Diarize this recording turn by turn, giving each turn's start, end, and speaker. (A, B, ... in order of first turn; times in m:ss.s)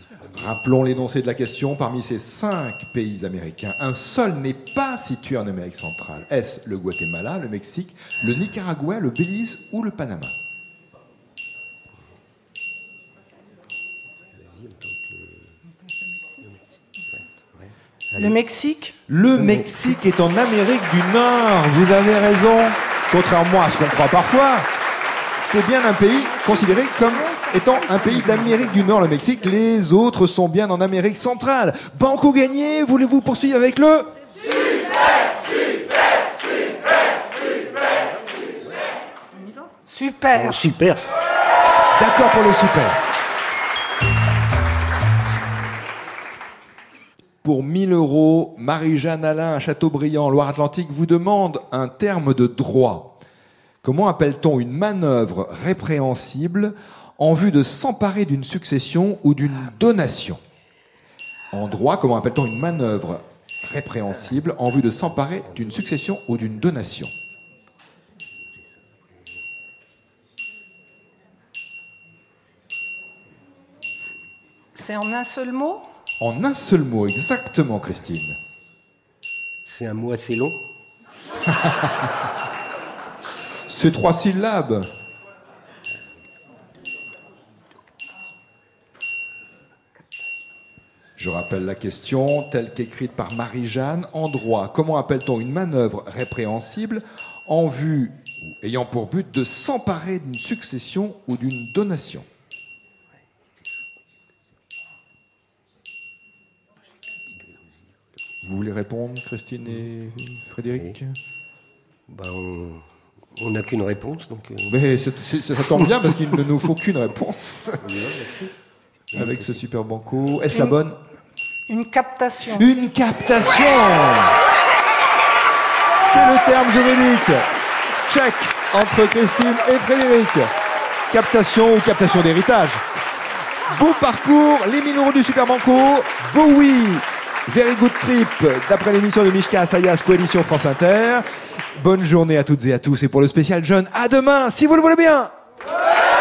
0:00.2-0:10.3 A
0:14.4-0:15.4 B
0:17.6-0:18.4 B
0:18.2-0:18.9 C
0:19.1-0:24.7 A
0:19.4-0:19.7 B
0:25.4-0:34.1 A
0:39.8-0:40.6 C
0:40.3-0:41.0 B
0:42.0-0:43.0 A
0:47.4-0:53.2 A
0:53.8-1:00.4 A
1:01.5-1:07.1 A
1:14.7-1:15.8 C
1:16.2-1:18.4 A
1:19.6-1:20.6 B
1:21.6-1:22.0 A
1:23.7-1:24.9 A
1:31.2-1:42.2 A
1:48.4-1:51.2 A
1:52.1-1:52.8 B
1:53.4-1:54.8 B
1:54.7-1:57.9 A
1:57.8-1:58.5 B
1:59.1-1:59.6 B
1:59.1-2:01.0 A
2:01.7-2:02.7 C
2:02.5-2:04.4 A
2:06.0-2:07.5 A
2:08.0-2:10.5 A
2:11.1-2:12.8 A
2:13.6-2:21.2 A
2:21.8-2:25.3 A